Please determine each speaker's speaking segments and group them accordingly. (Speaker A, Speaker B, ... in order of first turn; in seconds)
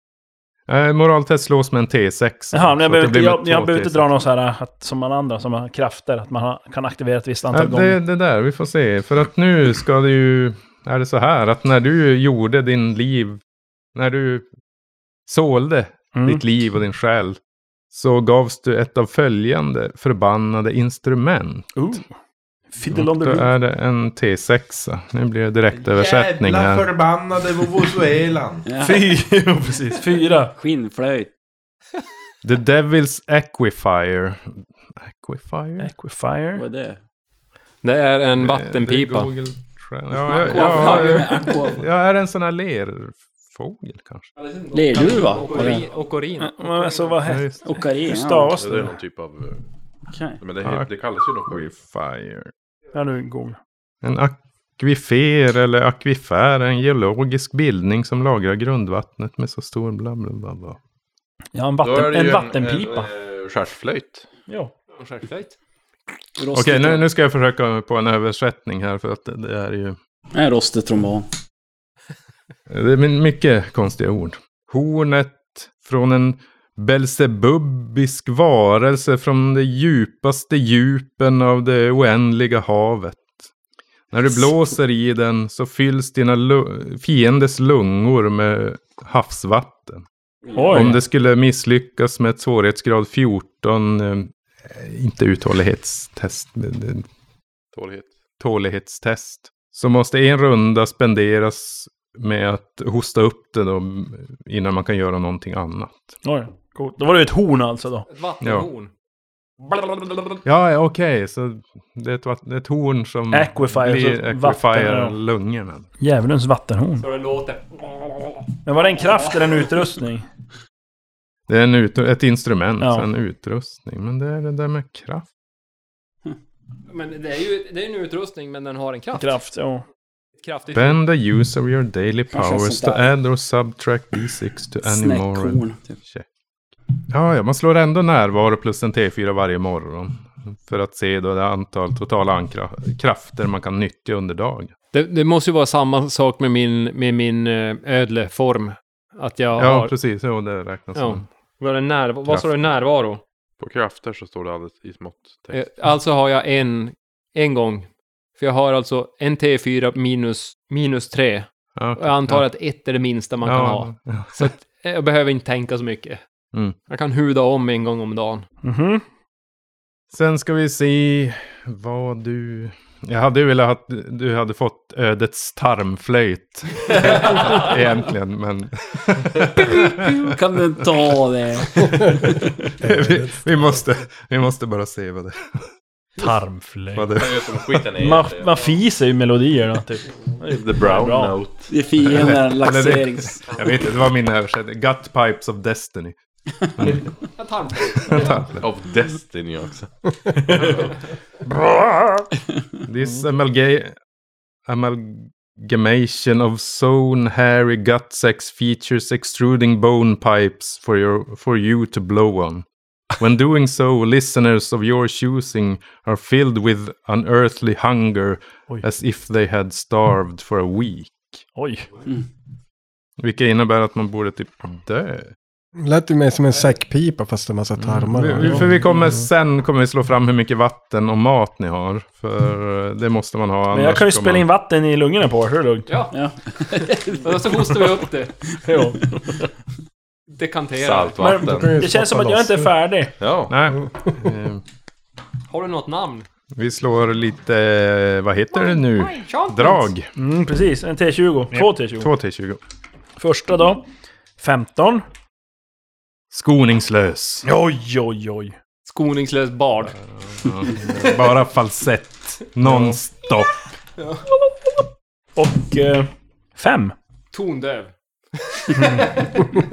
Speaker A: 0.7-4.0, 7.5-13.4, 13.9-14.4, 15.3-17.4, 17.9-21.7, 22.9-26.9, 32.4-35.9, 38.4-44.3, 47.2-47.6, 50.6-50.9, 51.5-52.5, 54.0-60.8, 66.5-70.0, 72.7-83.4, 84.1-90.0, 90.7-97.1, 98.4-106.1, 108.4-108.7, 109.7-115.8, 121.5-125.2, 130.7-136.2, 137.1-144.7, 149.6-151.2, 152.2-152.5, 161.7-162.5, 163.4-164.5, 170.1-180.3, 181.8-185.6, 186.9-187.8, 192.0-196.1, 196.8-197.3, 197.9-198.7, 202.8-203.9, 204.7-221.4, 223.2-225.3, 227.8-234.4, 243.5-244.6, 246.5-250.1, 251.5-252.6, 256.3-257.4, 260.1-263.6
Speaker B: 2.5-8.0, 16.1-16.4, 21.8-22.1, 22.7-23.5, 28.8-30.5, 35.8-36.6, 46.4-48.9, 52.9-53.6, 61.5-63.1, 64.5-64.7, 90.5-91.0, 106.2-108.1, 113.3-115.2, 116.0-117.0, 118.6-120.3, 122.8-123.1, 129.1-129.8, 168.6-169.0, 186.2-187.2, 187.9-191.3, 201.8-202.0, 221.5-221.9, 228.4-228.9, 233.7-235.9, 238.6-239.4, 241.2-243.2, 250.2-252.1, 253.2-253.8, 254.4-255.1, 257.4-258.5, 262.6-263.0, 265.4-266.9, 268.8-269.1
Speaker C: 25.8-28.6, 48.6-49.6, 50.4-51.7, 61.8-64.2, 97.7-98.1, 153.6-155.7, 187.2-188.6, 190.4-191.7, 198.6-199.9, 240.7-241.8, 243.2-243.5
Speaker D: 28.6-29.0, 30.5-31.3, 36.5-37.0, 40.4-41.8, 44.7-45.8, 47.6-48.6, 50.1-50.4, 66.4-67.0, 70.3-71.3, 90.5-90.9, 132.3-133.1, 134.8-135.9, 179.9-182.5, 191.7-193.5, 236.1-237.7
Speaker E: 37.8-39.3, 40.2-41.4, 44.4-47.1, 65.0-65.5, 108.1-108.9, 117.0-118.3, 126.9-129.4, 130.4-131.0, 144.9-149.9, 150.9-153.2, 155.5-166.2, 166.9-168.4, 177.1-177.7, 197.2-198.5, 235.9-238.3, 240.3-241.4, 245.5-246.3, 248.5-249.9, 258.8-260.0, 260.6-261.0, 267.3-269.5
Speaker F: 182.8-183.8, 225.8-229.2, 241.4-242.8